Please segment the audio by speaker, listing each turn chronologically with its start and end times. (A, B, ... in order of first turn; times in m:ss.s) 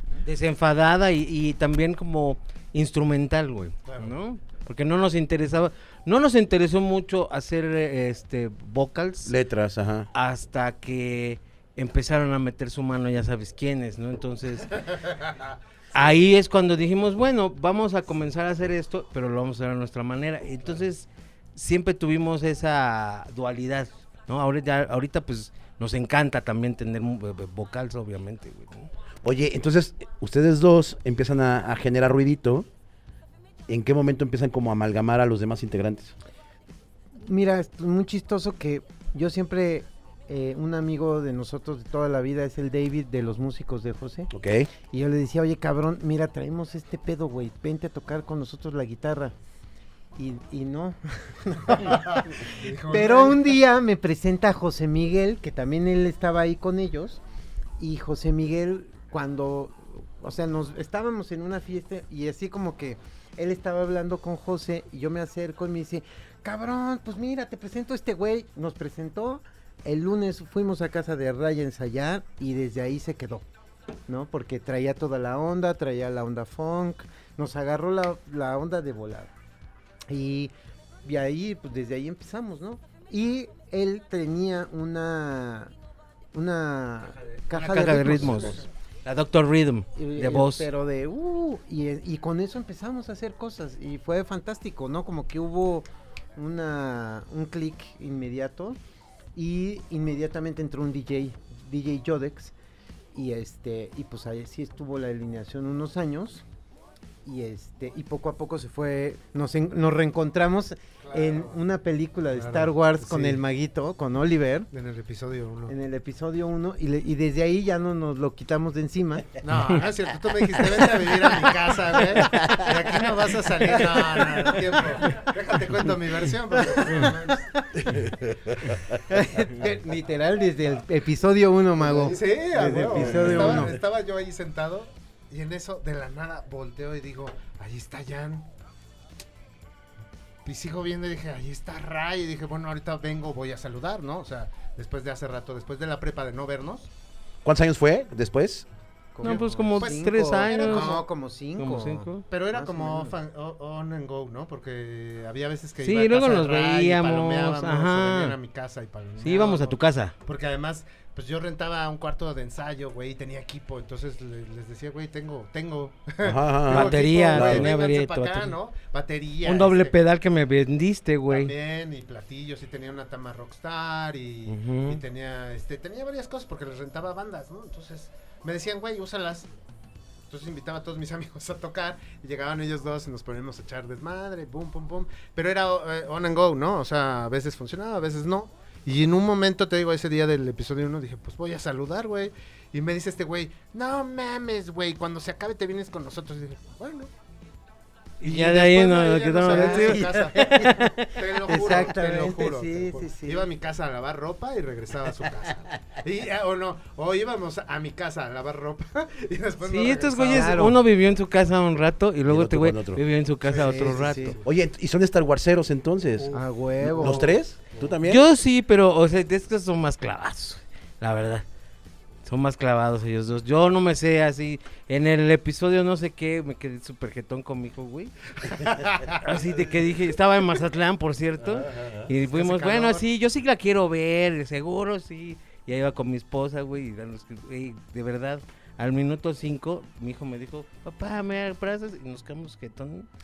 0:00.2-0:09.3 A
0:03.9-0:04.1 B
0:09.2-0:10.1 C
0:10.1-0:14.8 A
0:15.9-0:28.9 A
0:29.2-0:32.7 C
0:33.7-0:36.1 C
0:37.2-0:44.3 D
0:44.3-0:44.7 C
0:44.9-0:49.3 D
0:50.2-0:57.2 D
0:51.8-0:53.6 B
0:57.8-1:13.4 D
1:14.1-1:19.3 D
1:20.1-1:20.5 D
1:21.0-1:25.7 D
1:26.3-1:28.6 D
1:27.5-1:30.7 A
1:30.0-1:38.8 D
1:39.3-1:42.5 D
1:43.1-1:46.4 D
1:47.2-1:54.7 D
1:51.0-1:51.6 B
1:52.3-1:53.4 B
1:54.7-1:55.7 B
1:55.7-1:59.4 D
1:59.4-2:07.5 B
2:00.6-2:02.6 D
2:02.3-2:02.7 C
2:03.6-2:05.2 D
2:06.5-2:08.0 D
2:07.8-2:09.0 C
2:08.9-2:13.8 D
2:11.8-2:18.5 B
2:12.9-2:13.7 C
2:20.4-2:26.9 B
2:27.4-2:28.6 C
2:29.1-2:33.1 D
2:29.2-2:31.0 A
2:29.2-2:31.1 B
2:31.6-2:32.2 A
2:32.3-2:50.0 B
2:35.8-2:38.4 A
2:39.2-2:40.1 A
2:46.2-2:47.7 C
2:46.7-2:48.5 A
2:49.4-2:51.5 A
2:51.3-2:59.5 B
2:54.5-2:55.0 A
3:00.3-3:17.1 B
3:18.2-3:21.1 A
3:18.2-3:30.7 B
3:19.4-3:23.5 D
3:29.6-3:34.4 A
3:30.3-3:30.8 D
3:32.3-3:33.0 C
3:33.4-3:34.5 B
3:33.5-3:34.4 D
3:34.4-3:38.2 C
3:36.2-3:38.0 B
3:36.3-3:37.3 D
3:38.0-3:41.4 A
3:42.2-3:48.1 A
3:48.5-3:49.2 B
3:49.1-4:03.1 A
3:51.5-3:52.1 C
3:52.3-3:53.0 B